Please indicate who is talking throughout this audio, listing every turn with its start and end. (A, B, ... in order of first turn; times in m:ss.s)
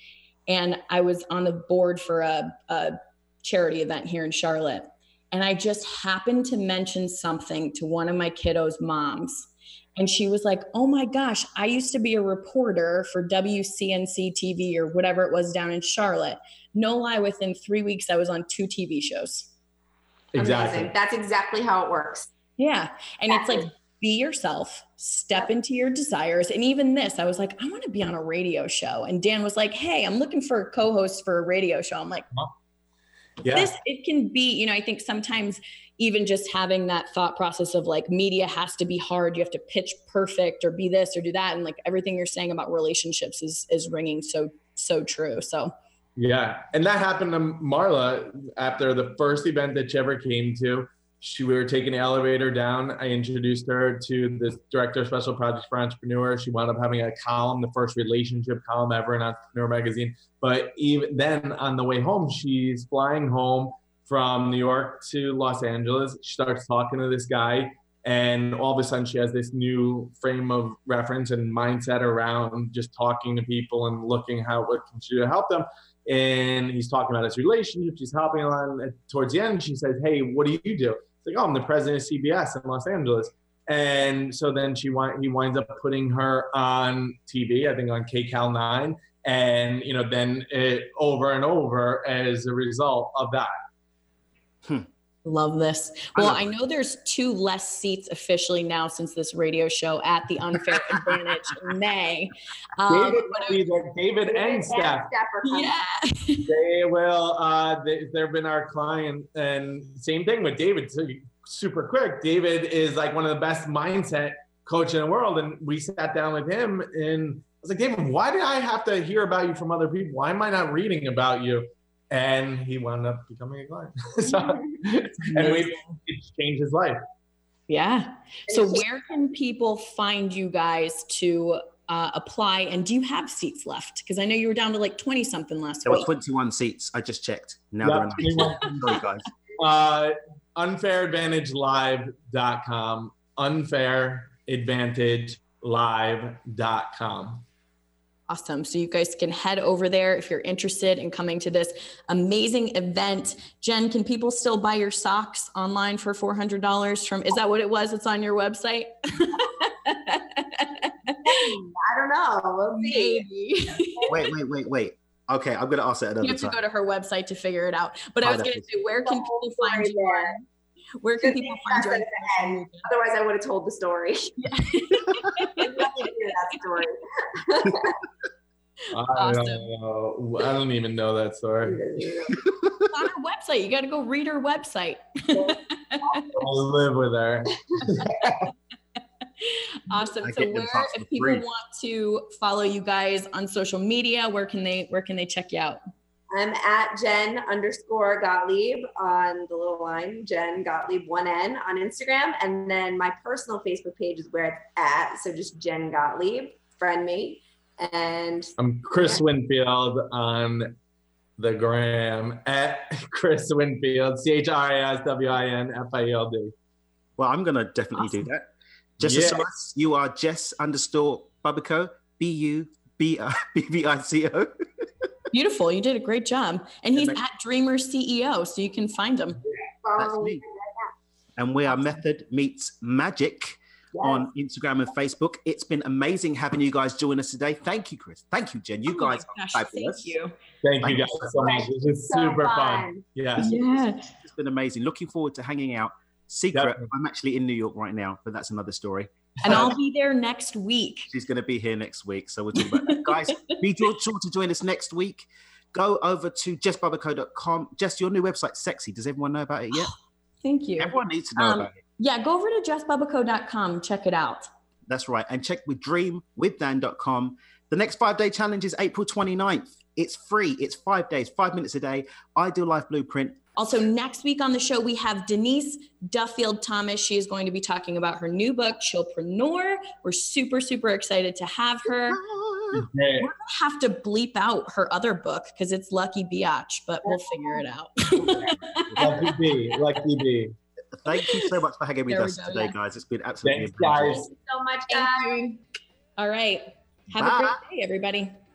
0:00.5-0:19.5 A
0:20.3-0:20.9 B
0:20.4-0:22.3 C
0:22.6-0:32.3 A
0:23.3-0:23.7 C
0:33.4-0:33.7 B
0:33.5-0:45.7 A
0:46.2-1:33.5 B
1:35.2-1:43.6 A
1:36.2-1:36.4 D
1:42.9-1:45.1 B
1:44.3-1:45.7 C
1:45.4-1:46.5 A
1:46.5-2:07.0 B
2:04.2-2:04.8 C
2:05.2-2:05.9 A
2:07.7-2:16.1 A
2:08.5-2:08.8 C
2:15.9-2:19.3 D
2:17.8-2:18.8 B
2:19.6-2:27.4 B
2:28.3-2:41.5 A
2:41.2-2:43.3 C
2:42.7-2:44.1 A
2:44.1-2:46.6 D
2:46.2-2:50.4 A
2:48.2-2:48.7 D
2:49.0-2:50.4 C
2:51.0-2:52.9 A
2:51.2-2:54.4 C
2:54.4-2:56.1 A
2:55.6-2:58.0 C
2:58.9-3:01.8 B
2:59.1-2:59.7 A
3:01.7-3:02.4 C
3:02.4-3:02.9 D
3:02.9-3:06.2 A
3:05.4-3:06.4 C
3:06.4-3:08.5 B
3:07.7-3:08.4 C
3:09.4-3:15.8 A
3:10.2-3:11.4 D
3:16.3-3:29.2 C
3:28.6-3:30.8 B
3:31.4-3:36.5 B
3:37.2-3:44.9 D
3:38.0-3:38.2 A
3:39.0-3:39.5 B
3:45.3-3:49.4 A
3:46.9-3:47.2 D
3:49.8-3:50.9 C
3:50.0-3:50.4 D
3:51.4-4:00.1 D
3:54.0-3:54.3 C
3:58.9-4:00.4 A
4:00.6-4:03.5 B
4:00.8-4:01.4 D
4:01.4-4:03.0 C
4:03.4-4:04.2 A
4:03.4-4:09.8 D
4:06.5-4:06.9 B
4:09.4-4:11.1 A
4:11.1-4:19.9 D
4:12.9-4:13.6 A
4:20.4-4:24.5 A
4:20.8-4:21.8 D
4:24.9-4:33.6 D
4:33.6-4:42.2 A
4:42.1-4:42.9 D
4:42.7-4:43.3 B
4:43.2-4:49.3 A
4:47.1-4:47.6 C
4:48.1-4:49.1 D
4:49.0-4:50.5 B
4:50.9-4:54.2 D
4:51.1-4:51.6 A
4:52.1-4:52.8 A
4:53.4-4:54.3 B
4:54.1-4:55.4 C
4:54.9-4:55.6 A
4:56.2-4:58.4 A
4:57.2-4:57.6 D